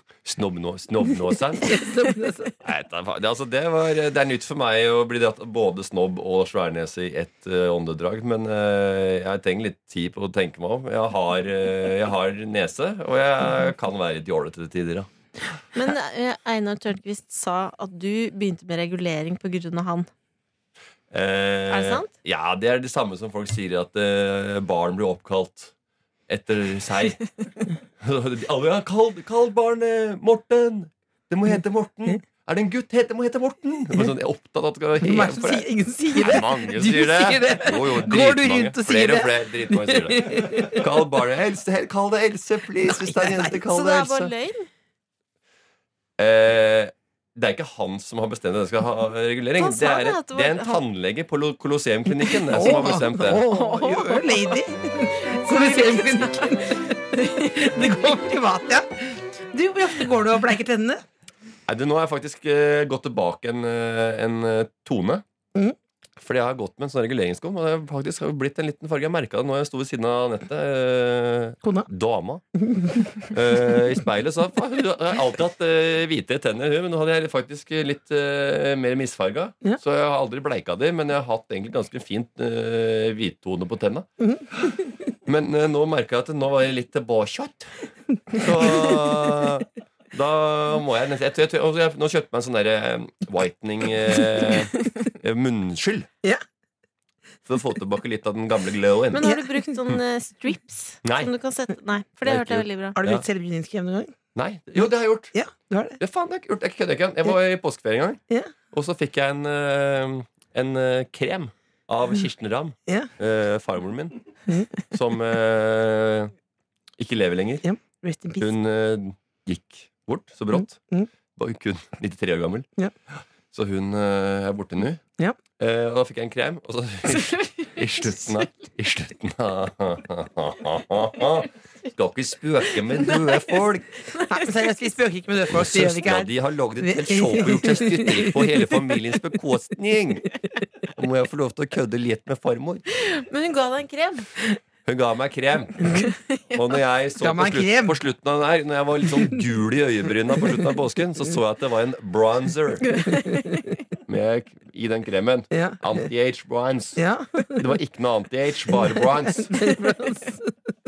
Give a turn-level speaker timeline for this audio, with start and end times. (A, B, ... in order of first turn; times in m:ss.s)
0:00.2-0:01.8 A
0:01.6-0:02.5 B
0:02.6-0:15.1 A
0:15.7-0:20.1 C
0:21.1-0:25.7 A
0:21.7-0:22.1 C
0:26.3-0:27.3 A
0:28.0-0:44.3 A
0:35.0-0:40.9 B
0:42.8-0:43.6 B
0:43.7-0:44.7 C
0:46.2-0:53.4 A
0:49.6-0:50.8 C
0:52.3-1:01.0 B
0:53.4-0:58.0 C
1:01.7-1:05.2 A
1:06.2-1:36.1 A
1:11.6-1:11.9 B
1:12.6-1:13.0 B
1:28.3-1:29.2 B
1:37.5-1:39.3 A
1:39.1-1:43.0 C
1:39.2-1:39.7 B
1:41.0-1:41.3 A
1:42.2-1:43.2 A
1:43.0-1:44.2 B
1:44.4-1:45.4 A
1:44.8-1:46.0 B
1:46.0-1:48.2 A
1:48.7-1:54.2 A
1:54.8-1:56.3 A
1:57.0-1:57.7 A
1:57.6-1:58.5 B
1:58.4-2:00.8 A
2:00.5-2:01.1 B
2:01.4-2:02.7 A
2:03.5-2:05.0 A
2:05.6-2:13.9 A
2:07.1-2:08.3 C
2:12.9-2:14.6 C
2:14.3-2:18.8 B
2:15.5-2:20.3 A
2:20.9-2:22.8 A
2:22.9-2:24.3 C
2:24.9-2:26.0 A
2:25.9-2:26.6 C
2:26.5-2:32.9 A
2:27.2-2:28.0 B
2:32.8-2:33.7 C
2:33.1-2:33.7 B
2:34.1-2:39.7 A
2:35.5-2:36.0 B
2:37.0-2:37.8 B
2:38.7-2:40.5 B